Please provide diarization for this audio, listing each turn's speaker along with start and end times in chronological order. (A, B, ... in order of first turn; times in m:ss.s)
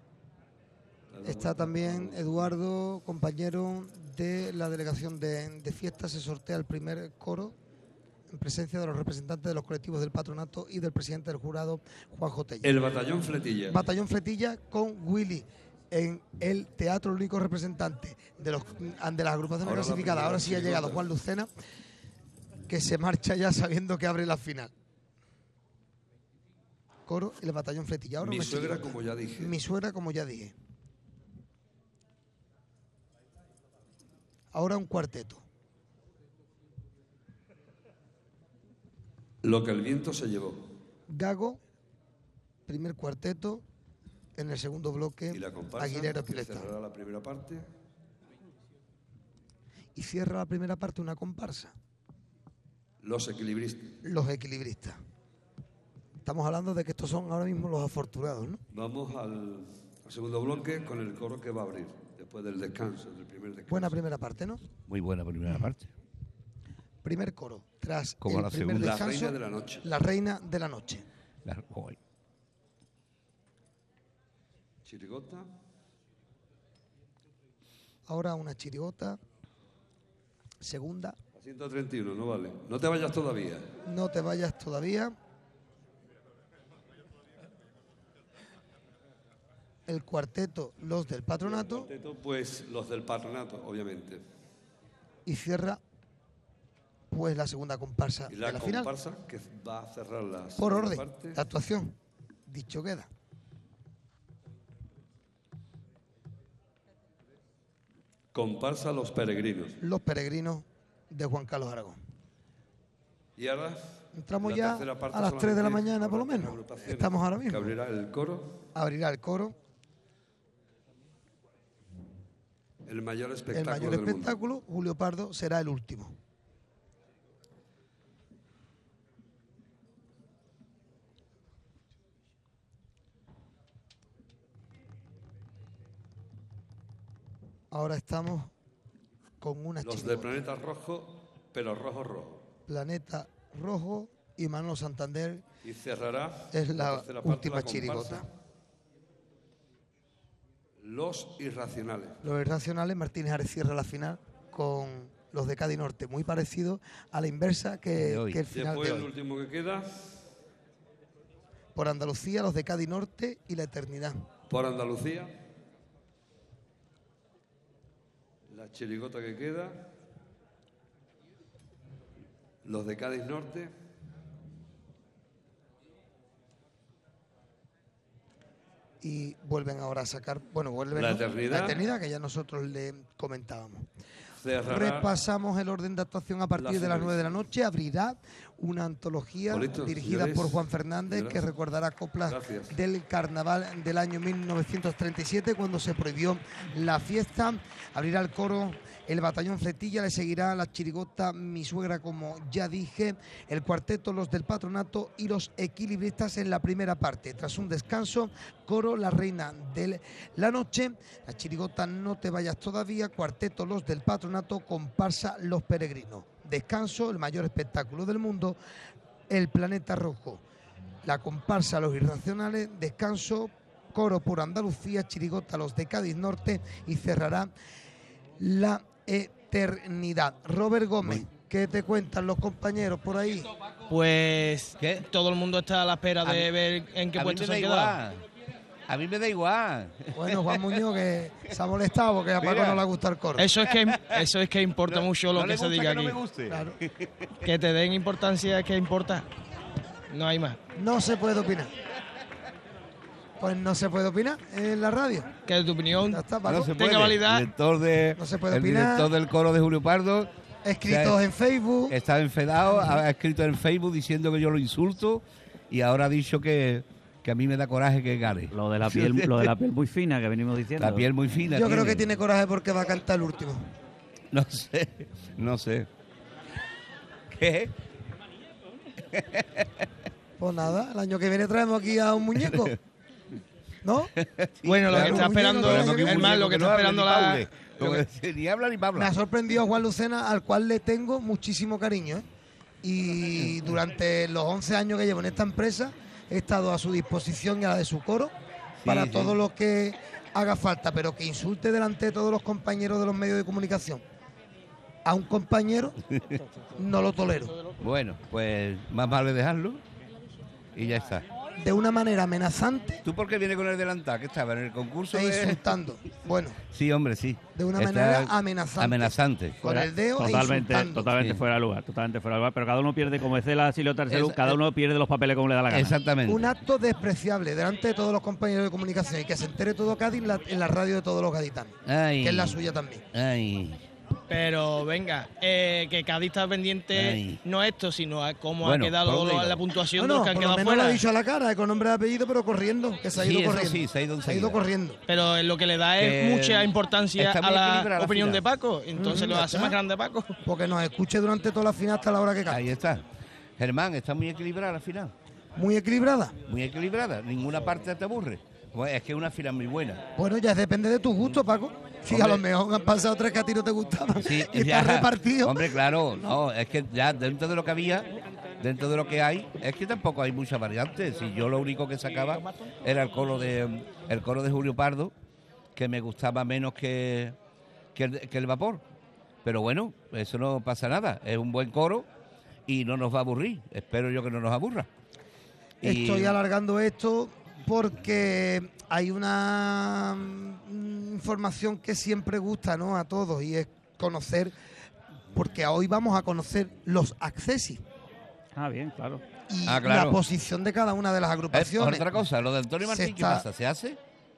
0:01.1-0:02.5 A
0:01.2-0:07.5 B
0:08.3-0:12.8 B
0:12.6-0:13.8 A
0:13.7-0:21.5 B
0:19.6-0:21.1 A
0:22.7-0:24.7 B
0:27.0-0:30.5 B
0:28.2-0:29.5 A
0:34.5-0:35.4 B
0:39.4-0:40.6 A
0:41.1-0:41.6 B
0:42.7-0:43.6 B
0:44.4-0:46.8 B
0:45.3-0:47.6 A
0:49.9-0:51.7 B
0:53.0-0:53.9 A
0:54.0-0:55.0 B
0:56.2-0:58.6 B
0:58.7-1:04.0 A
1:03.7-1:04.6 B
1:04.9-1:05.9 C
1:07.0-1:11.0 B
1:08.2-1:09.0 C
1:08.7-1:09.9 A
1:11.4-1:12.0 C
1:14.8-1:15.5 A
1:18.1-1:19.2 B
1:20.6-1:21.2 B
1:21.4-1:23.7 A
1:23.8-1:25.1 B
1:29.9-1:31.9 B
1:31.4-1:34.2 A
1:35.2-1:35.8 B
1:37.1-1:38.9 B
1:38.3-1:41.4 A
1:40.6-1:42.0 B
1:42.5-1:43.1 B
1:48.3-1:49.8 A
1:49.8-1:52.0 B
1:53.4-1:53.8 A
1:54.1-1:57.8 B
1:54.4-1:58.5 A
1:58.7-1:59.6 B
2:02.8-2:04.4 A
2:03.5-2:06.1 B
2:17.7-2:18.5 B
2:19.4-2:20.4 B
2:19.8-2:22.4 A
2:22.7-2:25.4 B
2:25.6-2:28.2 A
2:26.5-2:28.2 B
2:30.8-2:32.2 A
2:32.2-2:39.1 B
2:38.0-2:38.4 C
2:38.5-2:40.1 A
2:41.7-2:44.2 B
2:44.5-2:45.3 A
2:48.5-2:49.8 A
2:52.6-2:53.7 A
2:59.0-3:03.8 B
3:00.9-3:01.8 A
3:04.4-3:05.1 A
3:04.6-3:38.6 B
3:06.6-3:07.4 A
3:09.5-3:11.4 A
3:12.2-3:12.8 A
3:39.3-3:40.4 B
3:41.0-3:47.5 B
3:48.4-3:53.5 B
3:53.9-3:58.0 D
3:54.8-3:55.1 C
3:56.2-3:56.5 C
3:57.1-3:58.2 C
3:58.9-4:00.7 C
4:00.1-4:03.5 B
4:02.4-4:02.8 C
4:03.3-4:06.2 D
4:03.7-4:04.2 C
4:04.9-4:07.2 C
4:06.5-4:06.8 B
4:07.4-4:09.2 D
4:10.1-4:10.6 D
4:10.7-4:11.7 B
4:13.4-4:15.3 B
4:15.4-4:17.5 D
4:16.0-4:16.7 B
4:16.4-4:20.3 C
4:18.2-4:19.1 B
4:20.6-4:22.0 B
4:20.8-4:21.2 C
4:21.9-4:29.5 C
4:28.5-4:31.1 E
4:30.8-4:32.1 C
4:31.5-4:33.6 B
4:34.3-4:35.9 C
4:37.3-4:37.8 C
4:39.1-4:39.8 C
4:40.4-4:42.8 B
4:43.8-4:44.1 B
4:44.2-4:49.1 C
4:44.6-4:47.9 D
4:44.9-4:46.4 B
4:49.0-4:52.2 B
4:52.8-4:58.3 B
4:58.8-4:59.4 C
4:58.8-5:04.0 B
5:05.0-5:06.0 B
5:06.1-5:06.4 C
5:06.3-5:07.0 D
5:06.8-5:07.6 B
5:07.8-5:09.8 C
5:10.7-5:11.3 C
5:11.6-5:13.0 B
5:13.0-5:15.7 C
5:15.1-5:16.6 B
5:16.7-5:19.6 C
5:17.5-5:21.1 B
5:19.6-5:26.0 E
5:24.1-5:24.6 C
5:25.7-5:26.5 C
5:26.3-5:33.0 B
5:31.8-5:32.6 C
5:33.1-5:33.8 C
5:34.3-5:41.0 D
5:36.9-5:37.4 C
5:38.6-5:39.6 C
5:40.0-5:45.0 B
5:43.1-5:44.6 C
5:45.1-5:50.4 D
5:46.0-5:48.4 C
5:48.9-5:49.8 B
5:50.4-5:52.8 B
5:52.5-5:53.0 C
5:53.6-5:55.1 C
5:55.5-5:56.4 B
5:56.4-6:00.0 C
6:00.2-6:06.4 B
6:02.1-6:02.4 C
6:04.2-6:15.1 C
6:15.7-6:17.4 C
6:17.9-6:18.8 C
6:19.4-6:22.1 C
6:22.7-6:24.9 C
6:25.8-6:26.4 C
6:25.8-6:34.5 B
6:35.3-6:37.8 B
6:38.6-6:39.2 E
6:39.5-6:42.1 B
6:39.6-6:40.2 C
6:41.5-6:44.0 C
6:42.8-6:43.4 B